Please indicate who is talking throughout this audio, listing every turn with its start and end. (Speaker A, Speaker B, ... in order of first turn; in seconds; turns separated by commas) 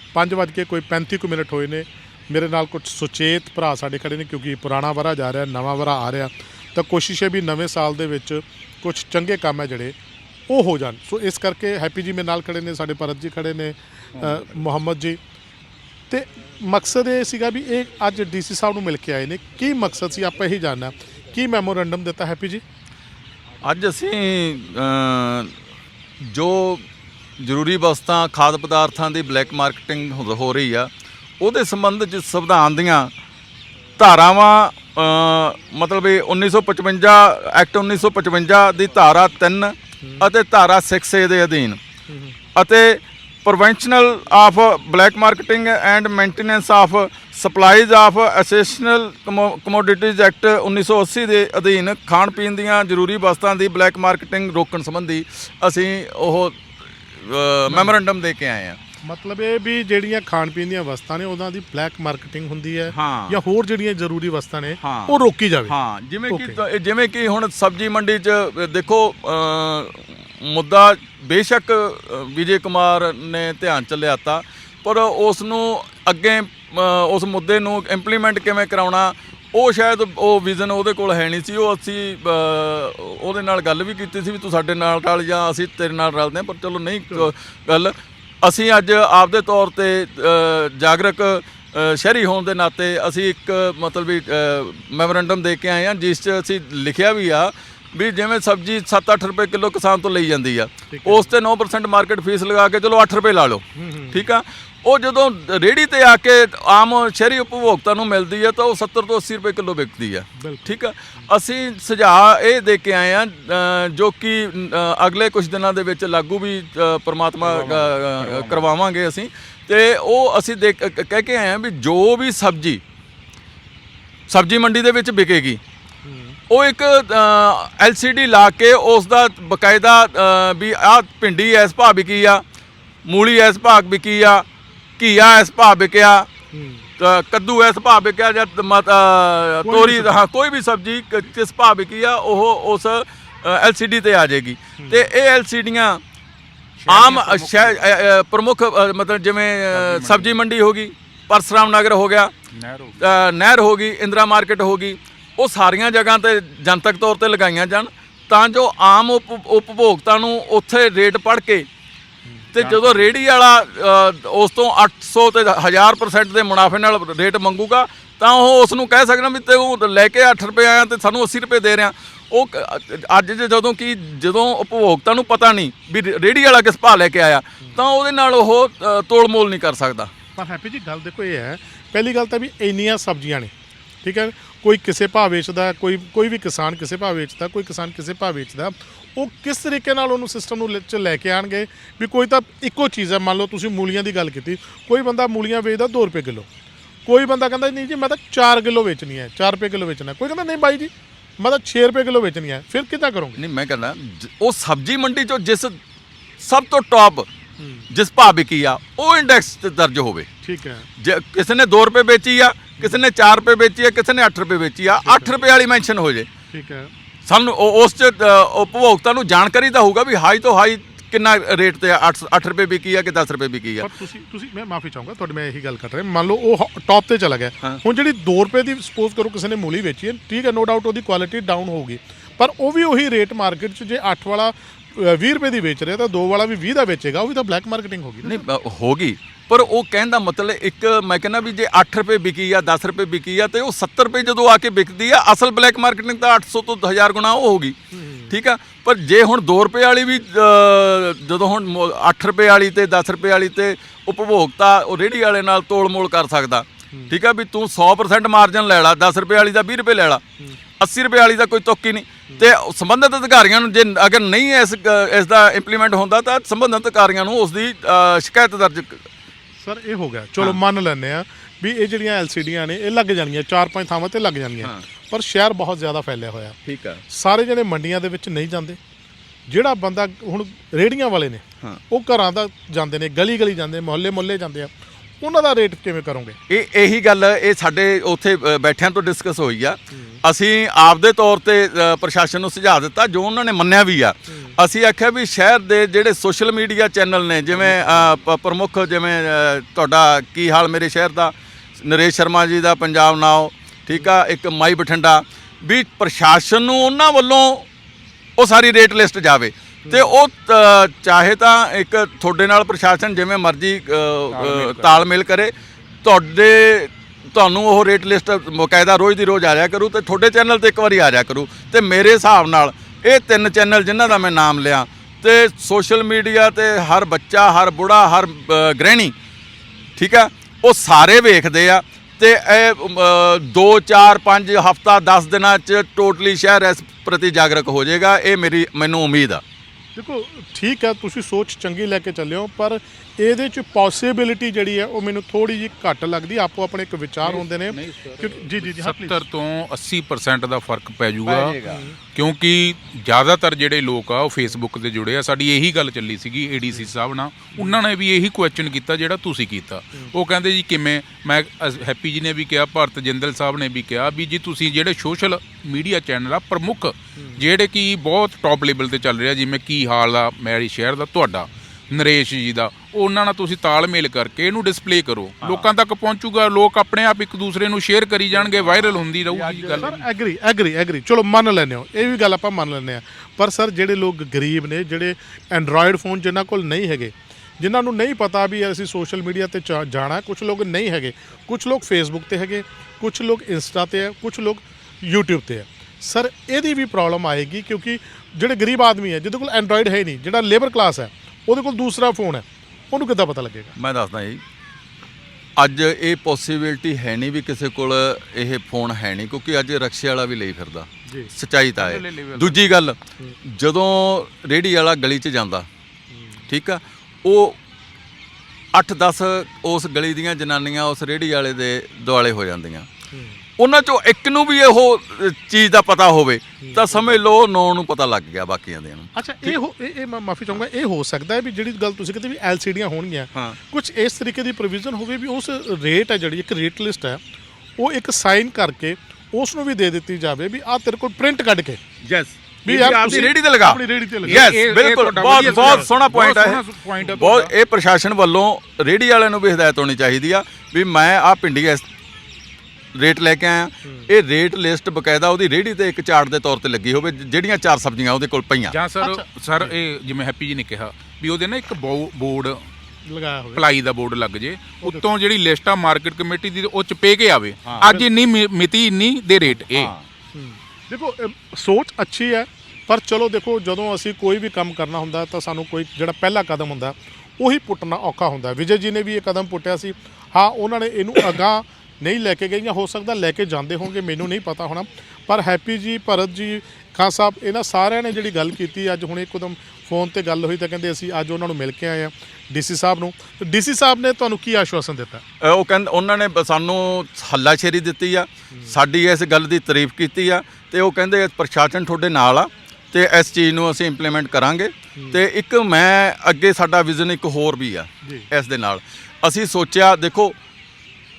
Speaker A: 0.1-9.9, Speaker A: 10.5-15.2, Speaker A: 16.1-22.6, Speaker B: 23.6-25.5, Speaker B: 26.2-26.8, Speaker B: 27.4-30.9, Speaker B: 31.4-33.1, Speaker B: 34.0-41.8, Speaker A: 40.0-40.3, Speaker A: 42.1-42.4, Speaker B: 42.5-56.6, Speaker B: 57.1-58.8, Speaker A: 57.7-57.9, Speaker A: 59.0-65.7, Speaker B: 62.9-63.4, Speaker B: 64.8-122.8, Speaker A: 66.3-66.6, Speaker A: 100.9-101.3, Speaker A: 103.7-104.2, Speaker A: 110.4-111.3, Speaker C: 117.4-118.7, Speaker B: 124.3-125.6, Speaker A: 126.0-126.4, Speaker B: 126.5-132.4, Speaker B: 133.1-134.4, Speaker B: 135.0-136.3, Speaker A: 136.5-136.8, Speaker B: 137.0-146.0, Speaker A: 139.6-140.2, Speaker A: 144.8-145.0, Speaker C: 146.8-147.8, Speaker B: 146.9-152.3, Speaker C: 149.7-150.4, Speaker C: 152.5-153.0, Speaker B: 153.0-161.7, Speaker B: 162.5-180.1, Speaker C: 162.6-163.1, Speaker A: 180.3-183.5, Speaker A: 184.0-196.5, Speaker A: 197.1-203.4, Speaker B: 203.4-205.8, Speaker B: 206.4-207.3, Speaker A: 207.6-207.9, Speaker B: 207.9-210.3, Speaker A: 210.4-210.9, Speaker B: 211.0-216.3, Speaker A: 215.0-215.4, Speaker A: 216.5-216.9, Speaker B: 217.2-223.8, Speaker A: 223.8-238.4, Speaker B: 238.2-247.8, Speaker A: 247.9-248.3, Speaker B: 248.3-260.2, Speaker B: 260.8-269.0, Speaker A: 269.6-278.8, Speaker B: 276.6-277.0, Speaker A: 279.5-286.4, Speaker B: 286.5-307.7, Speaker A: 289.9-290.2, Speaker A: 294.3-294.6, Speaker A: 297.6-297.9, Speaker B: 308.4-315.5, Speaker A: 309.9-310.1, Speaker C: 314.3-315.0, Speaker B: 316.0-329.1, Speaker B: 330.0-339.4, Speaker A: 339.9-349.2, Speaker C: 347.2-351.6, Speaker B: 351.2-351.8, Speaker A: 351.7-351.9, Speaker C: 352.1-380.0, Speaker B: 375.4-375.7, Speaker B: 378.4-379.9, Speaker A: 379.8-403.7, Speaker B: 403.8-404.4, Speaker B: 405.6-415.6, Speaker C: 411.8-412.7, Speaker B: 416.5-417.6, Speaker B: 418.7-422.9, Speaker A: 423.1-423.4, Speaker B: 423.6-429.6, Speaker A: 426.6-427.1, Speaker A: 429.1-437.2, Speaker A: 437.8-441.8, Speaker B: 442.0-451.9, Speaker A: 442.6-444.5, Speaker C: 444.2-447.5, Speaker A: 445.3-445.9, Speaker B: 452.9-458.8, Speaker C: 458.7-462.6, Speaker A: 459.0-459.7, Speaker A: 463.0-463.6, Speaker C: 463.6-469.9, Speaker A: 467.8-468.1, Speaker B: 469.7-470.1, Speaker A: 470.3-495.2, Speaker B: 495.4-510.4, Speaker A: 508.0-508.3